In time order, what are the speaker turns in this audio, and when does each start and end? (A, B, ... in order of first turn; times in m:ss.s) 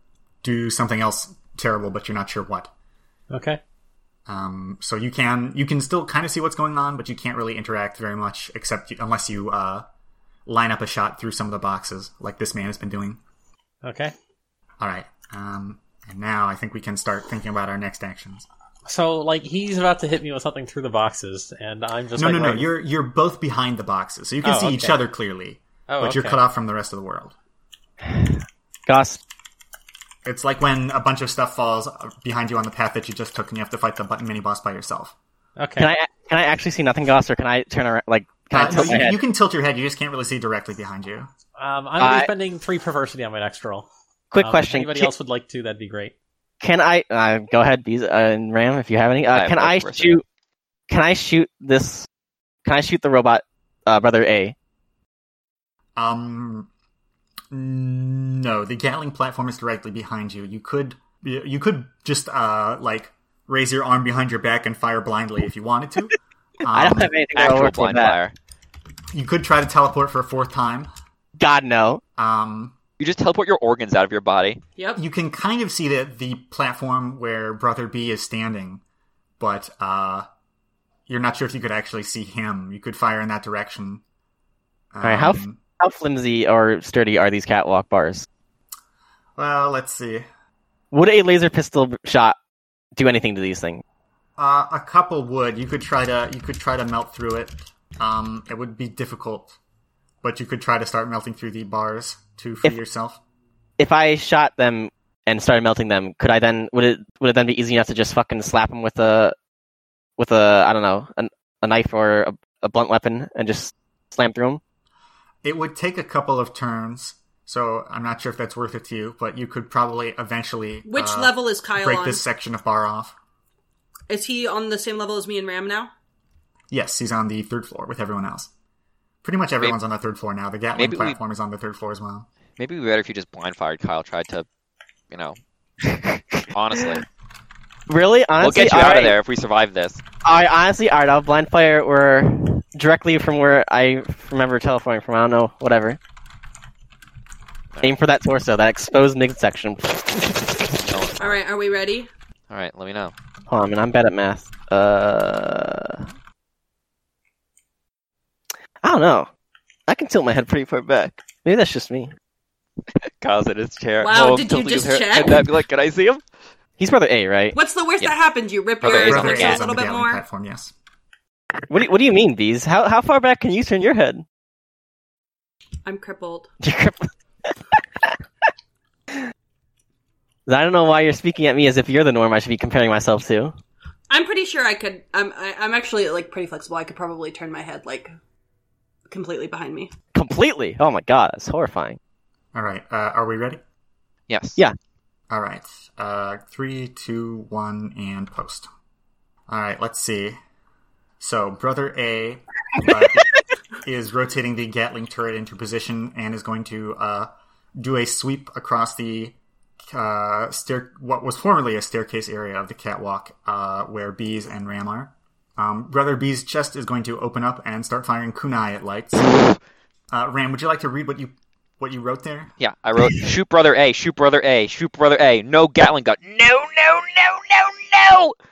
0:00.4-0:02.7 A
0:03.3-0:03.6 B
0:04.3-0:09.8 A
0:10.4-0:13.2 A
0:13.8-0:14.1 B
0:14.8-0:18.4 A
0:18.8-0:22.7 B
0:22.2-0:27.3 A
0:24.4-0:25.0 B
0:25.9-0:26.4 B
0:28.0-0:29.2 C
0:30.2-0:35.1 A
0:35.6-0:35.9 B
0:35.8-0:39.2 C
0:38.5-0:41.3 A
0:41.6-0:43.9 B
0:42.0-0:42.3 C
0:44.3-0:45.1 C
0:44.4-0:46.1 B
0:46.6-0:50.2 C
0:49.3-0:50.2 D
0:50.9-0:52.1 C
0:52.6-0:54.5 C
0:56.0-0:56.7 A
0:57.5-1:07.1 A
1:06.7-1:08.2 C
1:07.3-1:08.3 D
1:09.1-1:10.9 A
1:11.4-1:12.0 C
1:12.2-1:12.7 A
1:13.0-1:14.6 D
1:15.0-1:18.8 A
1:19.4-1:20.2 A
1:21.1-1:24.0 A
1:24.9-1:25.6 A
1:25.0-1:28.3 C
1:29.4-1:30.2 A
1:30.9-1:32.4 C
1:33.0-1:33.8 C
1:34.4-1:39.6 A
1:40.2-1:43.2 A
1:43.8-1:49.4 C
1:50.2-1:54.6 C
1:55.4-2:03.1 A
2:00.8-2:02.2 E
2:04.1-2:05.9 E
2:06.7-2:08.5 A
2:09.2-2:12.3 A
2:10.8-2:11.2 D
2:12.6-2:14.4 D
2:15.1-2:15.4 D
2:15.9-2:16.9 C
2:16.5-2:17.0 D
2:17.9-2:19.2 C
2:18.4-2:20.0 D
2:20.2-2:26.0 C
2:27.8-2:30.6 C
2:30.7-2:31.4 D
2:31.2-2:32.1 E
2:32.5-2:33.1 D
2:33.5-2:36.1 C
2:38.8-2:39.3 C
2:39.9-2:42.1 C
2:43.0-2:46.2 D
2:44.0-2:45.5 E
2:46.8-2:47.6 C
2:47.5-2:50.2 E
2:48.8-2:49.6 D
2:49.0-2:50.7 A
2:51.7-2:54.2 C
2:55.8-2:56.5 E
2:56.6-2:58.2 C
3:00.5-3:03.5 C
3:04.1-3:08.1 E
3:09.1-3:09.9 E
3:10.1-3:12.0 C
3:12.5-3:13.6 A
3:14.3-3:14.6 D
3:15.3-3:18.7 A
3:19.5-3:20.4 A
3:21.2-3:29.4 A
3:29.9-3:39.4 A
3:40.1-3:42.5 A
3:42.6-3:48.3 D